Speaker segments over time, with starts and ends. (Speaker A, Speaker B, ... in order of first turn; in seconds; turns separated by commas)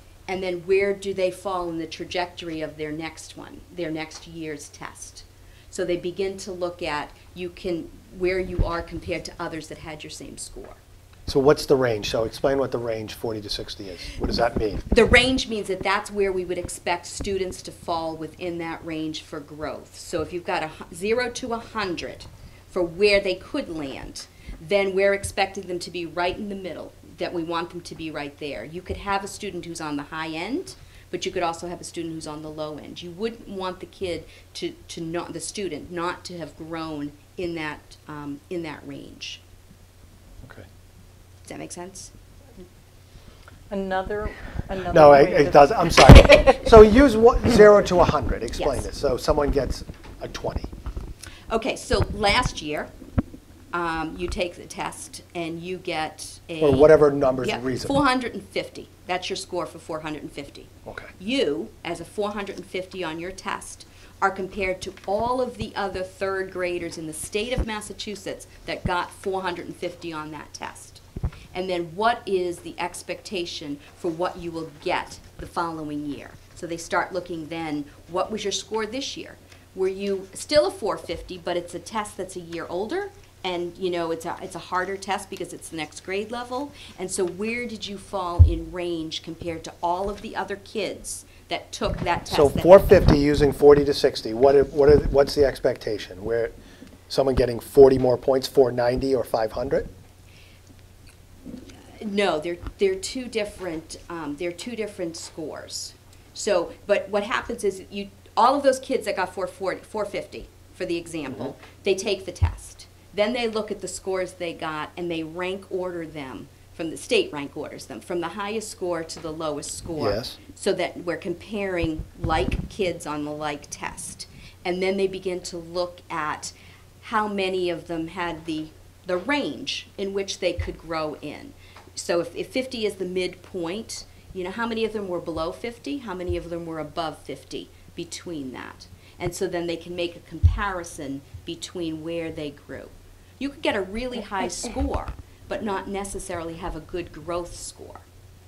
Speaker A: 0.3-10.8, Speaker B: 11.3-14.8, Speaker A: 14.9-39.4, Speaker A: 41.4-42.1, Speaker C: 43.7-46.0, Speaker B: 44.9-50.7, Speaker A: 48.5-48.9, Speaker A: 51.5-52.9, Speaker A: 53.7-71.0, Speaker B: 56.6-58.0, Speaker A: 71.5-93.0, Speaker B: 92.3-96.5, Speaker B: 97.1-99.9, Speaker A: 102.0-148.0, Speaker B: 120.0-120.3